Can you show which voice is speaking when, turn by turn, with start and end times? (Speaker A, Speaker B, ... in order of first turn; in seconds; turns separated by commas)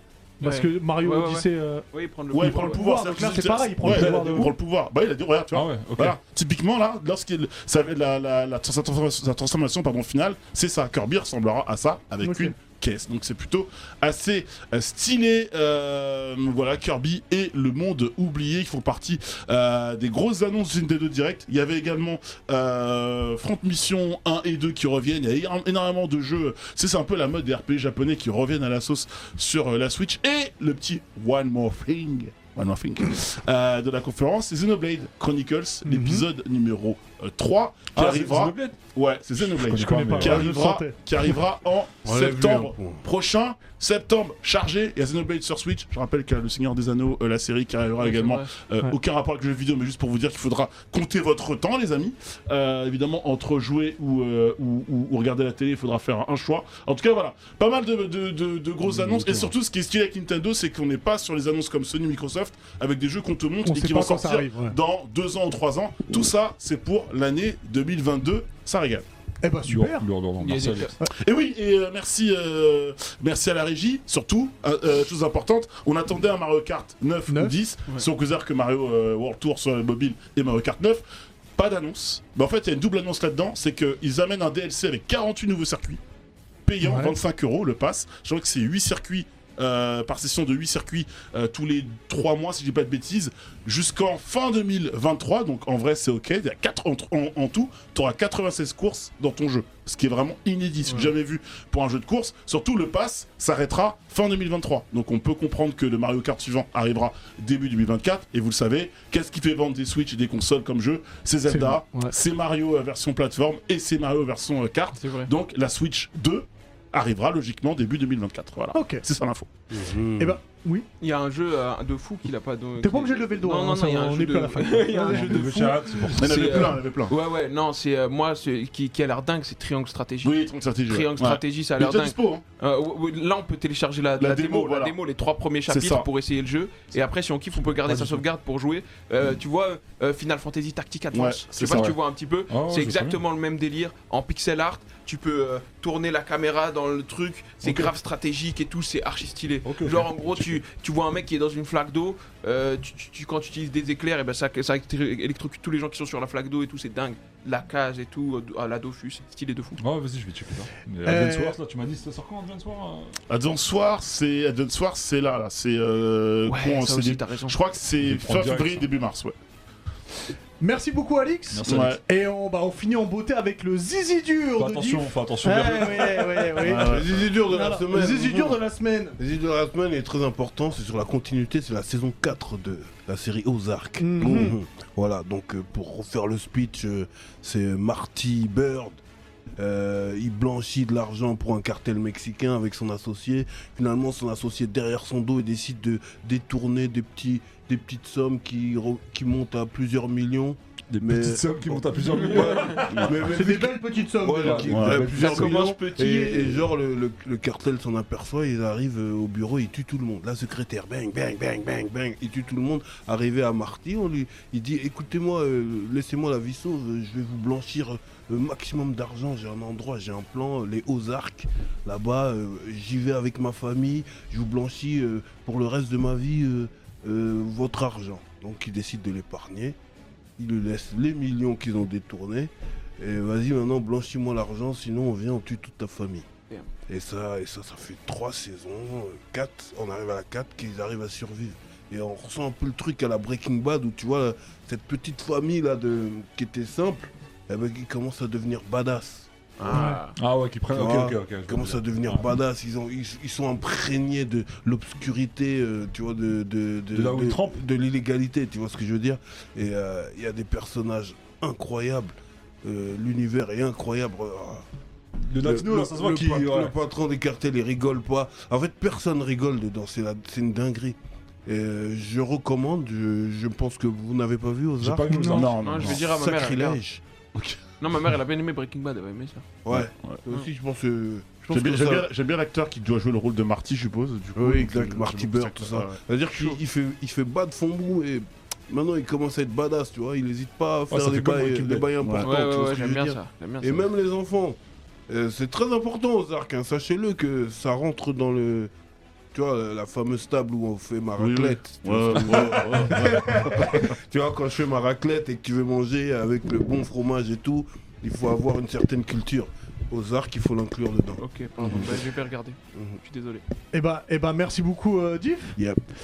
Speaker A: 0.4-2.8, Speaker B: 0.4-4.5, Speaker C: 2.3-69.0, Speaker D: 3.8-4.5, Speaker D: 5.5-6.2, Speaker B: 12.2-12.5, Speaker B: 35.8-36.2, Speaker D: 37.9-38.8, Speaker D: 39.4-40.5, Speaker B: 39.7-41.3, Speaker E: 42.0-43.0, Speaker A: 48.0-48.5, Speaker D: 58.8-59.5, Speaker B: 63.6-64.7, Speaker B: 69.4-70.1, Speaker D: 69.6-70.9, Speaker A: 70.4-70.9, Speaker C: 71.1-81.0, Speaker B: 77.3-77.5, Speaker C: 81.5-86.0, Speaker C: 86.7-119.5, Speaker B: 86.8-87.2, Speaker B: 111.5-112.1, Speaker A: 115.0-115.3, Speaker B: 118.7-119.0, Speaker E: 119.7-120.4, Speaker B: 120.2-120.8, Speaker A: 121.0-130.4, Speaker B: 122.8-126.2, Speaker D: 125.1-126.6, Speaker C: 126.2-127.1, Speaker C: 130.2-132.4, Speaker A: 130.9-159.8, Speaker C: 134.2-134.9, Speaker C: 135.7-136.1, Speaker D: 137.8-138.2, Speaker C: 141.1-141.9, Speaker D: 141.7-142.0, Speaker D: 142.5-143.2, Speaker D: 147.6-147.9, Speaker D: 149.6-150.6, Speaker D: 159.8-163.2, Speaker B: 161.0-161.6, Speaker C: 163.3-169.3, Speaker A: 166.5-167.6, Speaker D: 168.0-168.9, Speaker B: 170.6-176.9, Speaker D: 171.5-172.0, Speaker C: 171.7-172.0, Speaker D: 174.6-176.6, Speaker C: 176.6-177.4, Speaker E: 176.7-178.6, Speaker B: 177.5-179.2, Speaker E: 179.2-189.0, Speaker B: 184.0-184.6, Speaker E: 189.6-229.8, Speaker D: 200.9-203.3, Speaker A: 202.1-202.8, Speaker C: 202.9-203.1, Speaker B: 203.3-204.7, Speaker D: 204.3-205.7, Speaker C: 204.7-205.0, Speaker A: 205.0-206.7, Speaker E: 230.4-236.3, Speaker E: 236.9-249.8, Speaker A: 249.6-250.2, Speaker B: 249.7-250.0, Speaker D: 250.2-252.3, Speaker E: 250.7-264.6, Speaker D: 256.9-257.6, Speaker D: 265.2-266.7, Speaker E: 265.4-275.2, Speaker D: 274.8-276.0, Speaker B: 275.1-275.5, Speaker C: 275.2-276.0, Speaker A: 275.6-276.8, Speaker E: 275.9-277.6, Speaker A: 277.8-279.5, Speaker E: 279.6-282.1, Speaker C: 279.7-280.2, Speaker C: 281.5-286.0, Speaker E: 284.3-294.6, Speaker A: 286.3-286.6, Speaker D: 290.9-291.9, Speaker C: 292.0-292.3, Speaker A: 292.2-293.9, Speaker E: 295.1-298.7, Speaker E: 299.3-312.0, Speaker C: 301.2-303.9, Speaker A: 311.2-313.4, Speaker E: 312.7-313.0, Speaker B: 313.7-315.6